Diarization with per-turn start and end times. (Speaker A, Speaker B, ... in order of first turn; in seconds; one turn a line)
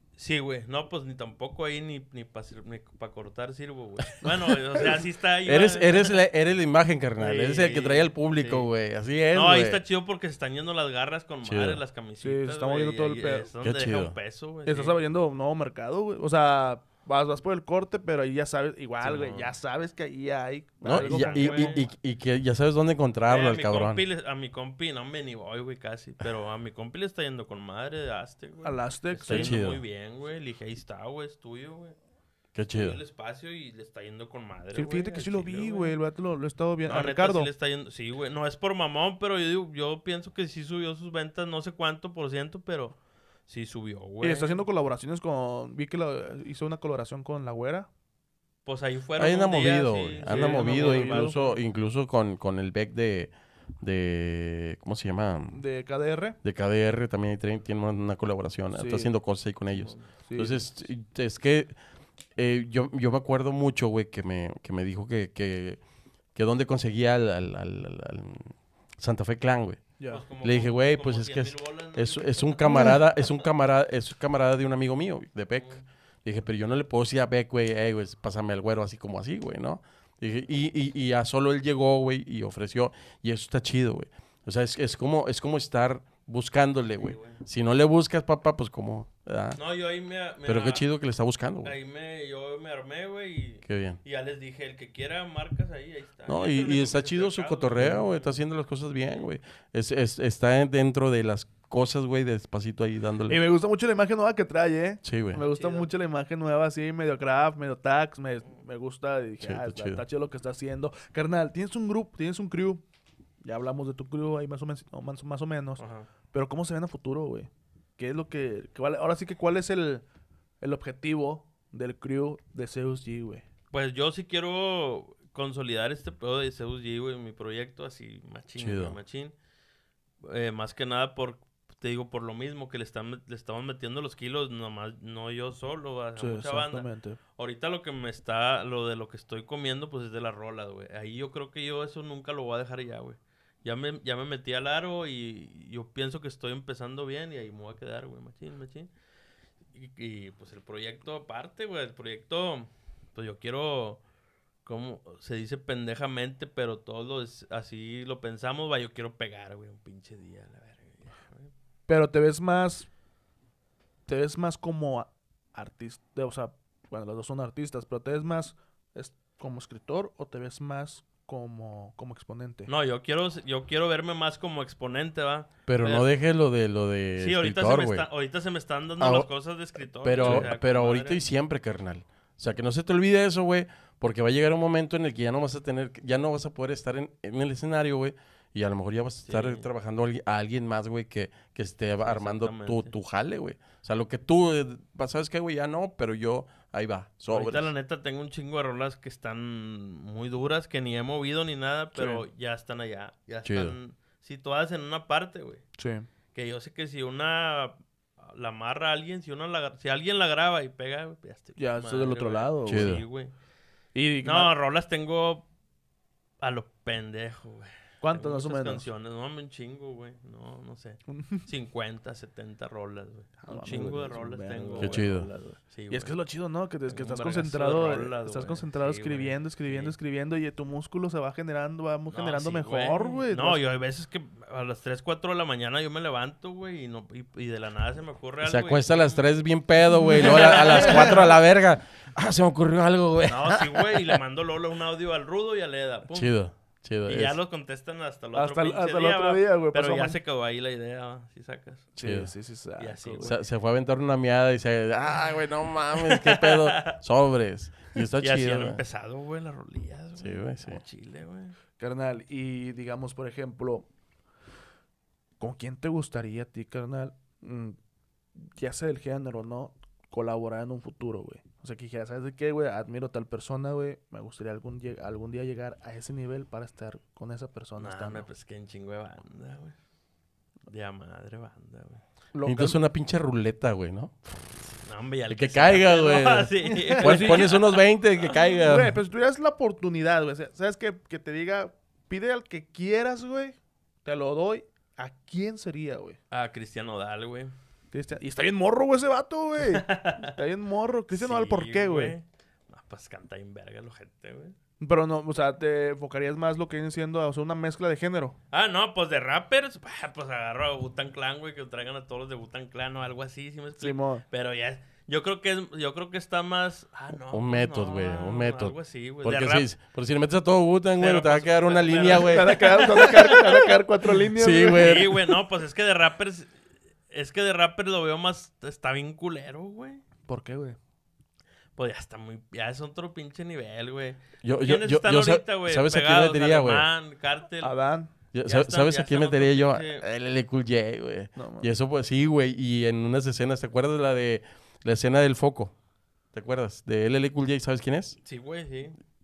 Speaker A: 0.2-6.2
Speaker B: 5.4-9.8
Speaker A: 7.2-8.7
Speaker A: 9.3-15.0
Speaker B: 11.4-11.8
Speaker C: 12.2-13.5
Speaker B: 13.6-14.1
Speaker C: 14.7-21.8
Speaker A: 19.0-19.5
Speaker B: 20.8-24.0
Speaker A: 20.9-21.9
Speaker A: 23.3-31.9
Speaker C: 28.6-29.6
Speaker B: 29.3-29.8
Speaker B: 32.5-33.0
Speaker A: 32.7-36.0
Speaker C: 34.7-37.5
Speaker A: 36.9-43.0
Speaker A: 43.5-44.6
Speaker C: 44.2-47.9
Speaker A: 48.6-51.4
Speaker B: 49.2-55.6
Speaker C: 50.2-51.5
Speaker C: 55.5-56.4
Speaker B: 56.4-61.7
Speaker C: 58.7-59.1
Speaker A: 59.7-60.1
Speaker C: 60.3-60.6
Speaker B: 62.4-65.8
Speaker B: 66.3-69.8
Speaker C: 70.0-70.2
Speaker A: 70.1-73.3
Speaker B: 70.4-89.6
Speaker C: 72.6-73.0
Speaker A: 75.6-75.8
Speaker A: 87.0-87.4
Speaker A: 89.5-90.8
Speaker B: 90.5-91.7
Speaker A: 91.6-98.4
Speaker B: 93.6-94.0
Speaker B: 96.3-103.4
Speaker C: 103.3-112.8
Speaker B: 105.0-105.4
Speaker A: 105.5-105.9
Speaker B: 109.4-110.0
Speaker C: 113.4-120.0
Speaker A: 115.8-116.1
Speaker C: 120.6-123.4
Speaker A: 123.7-129.3
Speaker B: 128.6-129.0
Speaker A: 130.2-148.9
Speaker C: 136.2-137.2
Speaker A: 149.7-154.0
Speaker A: 154.6-161.5
Speaker C: 161.9-162.9
Speaker C: 164.1-172.7
Speaker A: 172.7-176.1
Speaker B: 175.7-178.1
Speaker A: 177.2-181.2
Speaker B: 179.0-179.3
Speaker B: 180.0-197.7
Speaker C: 180.2-180.5
Speaker A: 189.2-189.7
Speaker A: 192.0-192.9
Speaker A: 197.3-205.6
Speaker C: 201.9-202.2
Speaker B: 203.4-203.7
Speaker C: 205.8-206.1
Speaker A: 206.3-213.3
Speaker C: 211.6-212.9
Speaker B: 212.7-213.0
Speaker C: 213.9-214.5
Speaker A: 214.2-215.4
Speaker A: 216.4-226.1
Speaker C: 218.0-218.8
Speaker C: 221.1-221.4
Speaker C: 223.4-225.3
Speaker B: 224.8-225.3
Speaker C: 225.9-233.6
Speaker A: 226.9-229.9
Speaker A: 232.1-239.3
Speaker B: 238.4-244.1
Speaker C: 240.1-241.2
Speaker A: 240.2-241.2
Speaker A: 243.2-246.3
Speaker B: 246.1-247.4
Speaker A: 247.1-251.9
Speaker C: 248.3-250.2
Speaker C: 251.9-253.3
Speaker B: 252.0-252.3
Speaker A: 252.8-253.3
Speaker B: 253.2-258.8
Speaker A: 255.9-256.9
Speaker A: 258.1-261.5
Speaker B: 260.2-260.8
Speaker C: 261.8-263.9
Speaker C: 265.4-267.8
Speaker C: 268.4-278.3
Speaker A: 277.8-279.8
Speaker A: 280.7-282.0
Speaker C: 282.3-282.8
Speaker B: 282.4-284.7
Speaker A: 284.8-288.5
Speaker B: 285.3-288.9
Speaker C: 286.9-287.5
Speaker C: 288.6-296.2
Speaker A: 296.3-297.5
Speaker C: 297.9-302.1
Speaker A: 299.6-300.4
Speaker A: 301.1-304.6
Speaker C: 304.8-308.4
Speaker A: 308.5-319.7
Speaker C: 313.8-314.2
Speaker B: 317.3-323.5
Speaker A: 321.0-323.6
Speaker C: 322.0-325.1
Speaker B: 324.2-325.2
Speaker A: 324.8-326.5
Speaker A: 327.1-330.0
Speaker C: 330.3-330.8
Speaker A: 331.8-337.7
Speaker B: 334.4-336.9
Speaker C: 337.6-338.1
Speaker B: 338.3-345.7
Speaker A: 338.4-340.1
Speaker C: 341.4-341.7
Speaker B: 346.3-348.2
Speaker A: 348.2-349.0